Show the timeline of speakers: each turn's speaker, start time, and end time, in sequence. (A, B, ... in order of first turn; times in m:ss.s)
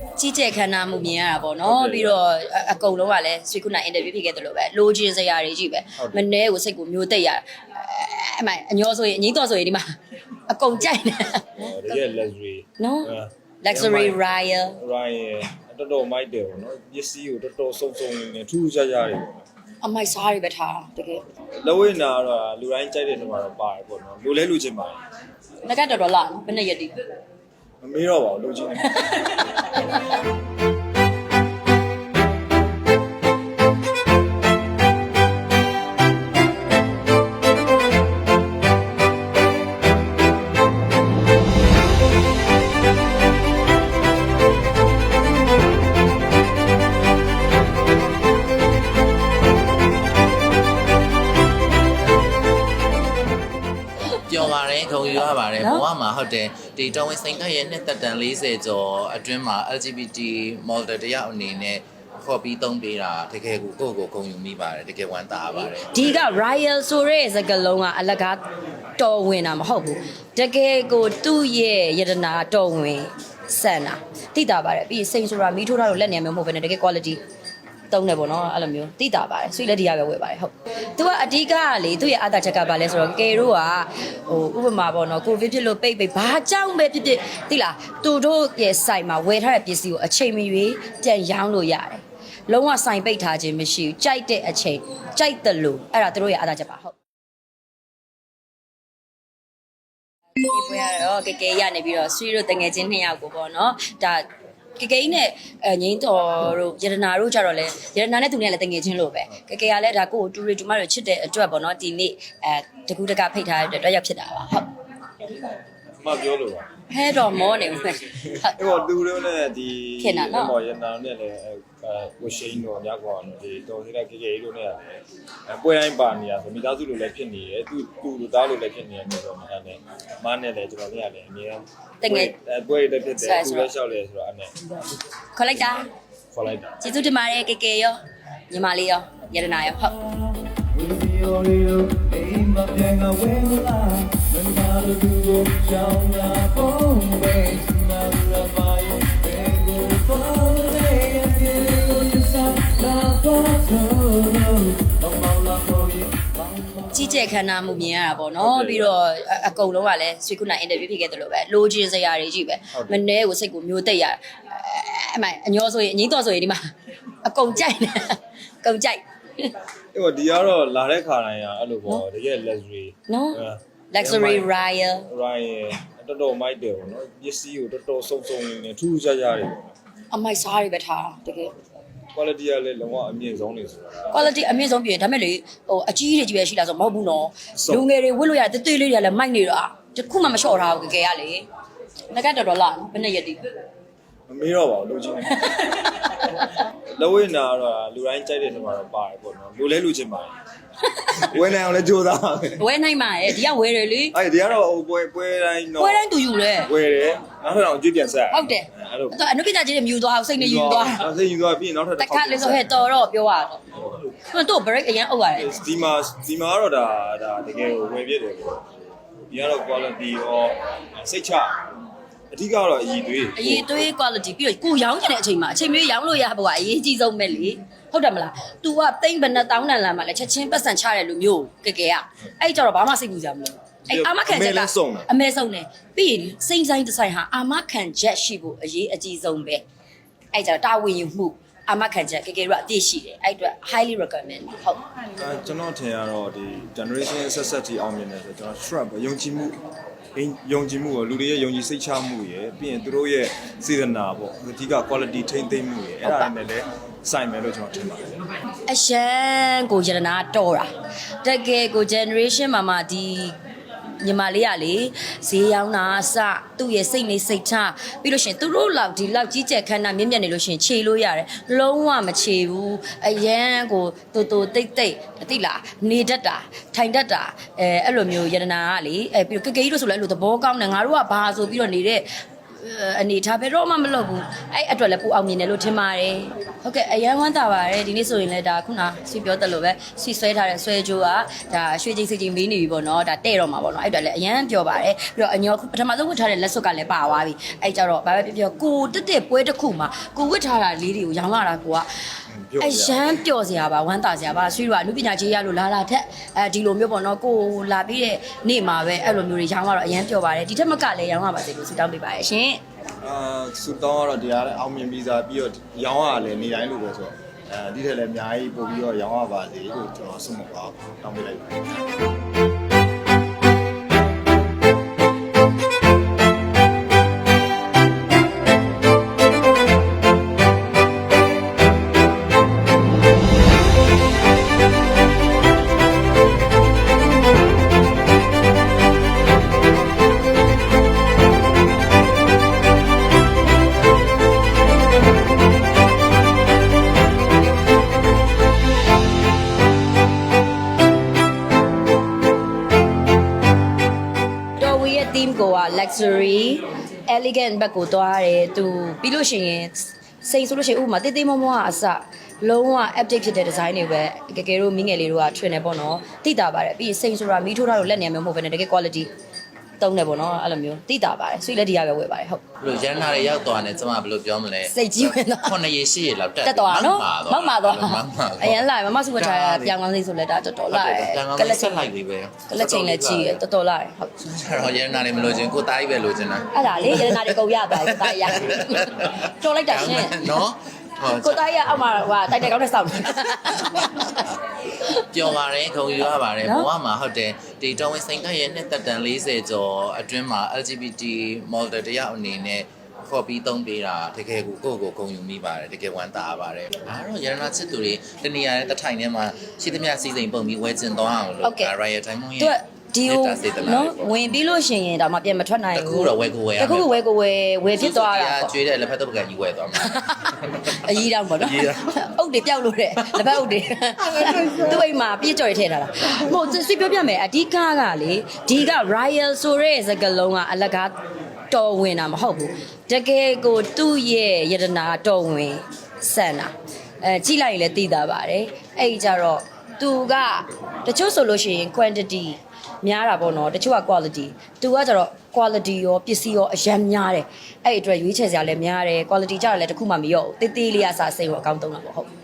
0:00.2-0:09.8 A
0:01.7-0:02.2 B
0:10.5-0:11.6 A
0:11.6-0:14.2 B
0:12.8-0:14.8 A
0:14.8-0:19.4 B
0:19.8-0:21.2 A
0:21.6-0:25.0 B
0:25.6-0:27.0 A
0:27.8-0:28.8 B
0:28.8-0:30.1 A
0:54.3-1:05.9 C
0:55.6-0:55.8 A
1:05.9-1:08.4 A
1:09.0-1:17.2 A
1:17.9-1:36.9 A
1:40.4-1:44.2 A
1:44.8-1:54.7 A
1:56.0-1:56.7 B
1:56.9-1:58.6 A
1:58.6-2:14.5 B
2:00.0-2:00.6 A
2:12.0-2:12.3 A
2:13.2-2:13.7 A
2:15.4-2:15.9 A
2:16.3-2:16.7 B
2:16.8-2:18.0 A
2:18.5-2:20.0 A
2:20.6-2:37.1 B
2:36.9-2:46.7 A
2:38.4-2:38.9 B
2:47.2-2:49.5 A
2:49.9-2:54.5 B
2:53.1-2:55.1 A
2:55.1-2:59.8 B
3:00.1-3:01.5 A
3:02.2-3:04.0 B
3:04.1-3:11.5 A
3:12.1-3:13.5 A
3:14.3-3:15.3 B
3:15.3-3:16.5 A
3:17.0-3:20.3 B
3:20.8-3:21.2 A
3:21.2-3:22.7 B
3:22.6-3:24.2 A
3:24.1-3:26.0 B
3:25.8-3:26.7 A
3:26.7-3:29.1 B
3:28.3-3:31.1 A
3:30.4-3:32.6 B
3:32.0-3:33.6 A
3:34.2-3:35.5 A
3:35.4-3:38.6 B
3:39.3-3:41.5 B
3:42.3-3:43.7 B
3:43.4-3:59.6 A
3:53.9-3:55.1 B
4:00.3-4:04.8 A
4:05.2-4:09.6 B
4:10.2-4:18.0 B
4:16.0-4:16.3 A
4:18.7-4:20.7 A
4:21.2-4:23.4 A
4:24.0-5:01.9 A
5:02.3-5:03.1 B
5:02.6-5:12.6 A
5:13.0-5:21.7 B
5:54.6-6:09.1 A
6:09.8-6:12.4 A
6:12.6-6:19.7 C
6:14.7-6:15.6 A
6:16.4-6:21.9 A
6:20.7-6:23.4 C
6:22.5-6:24.1 A
6:24.2-6:31.4 C
6:26.5-6:30.4 A
6:31.2-6:34.9 A
6:35.0-6:54.4 C
6:36.4-6:36.7 A
6:51.4-6:51.7 A
6:52.4-6:58.6 A
6:55.7-6:57.0 C
6:57.7-7:01.9 C
6:59.9-7:10.9 A
7:11.5-7:32.1 A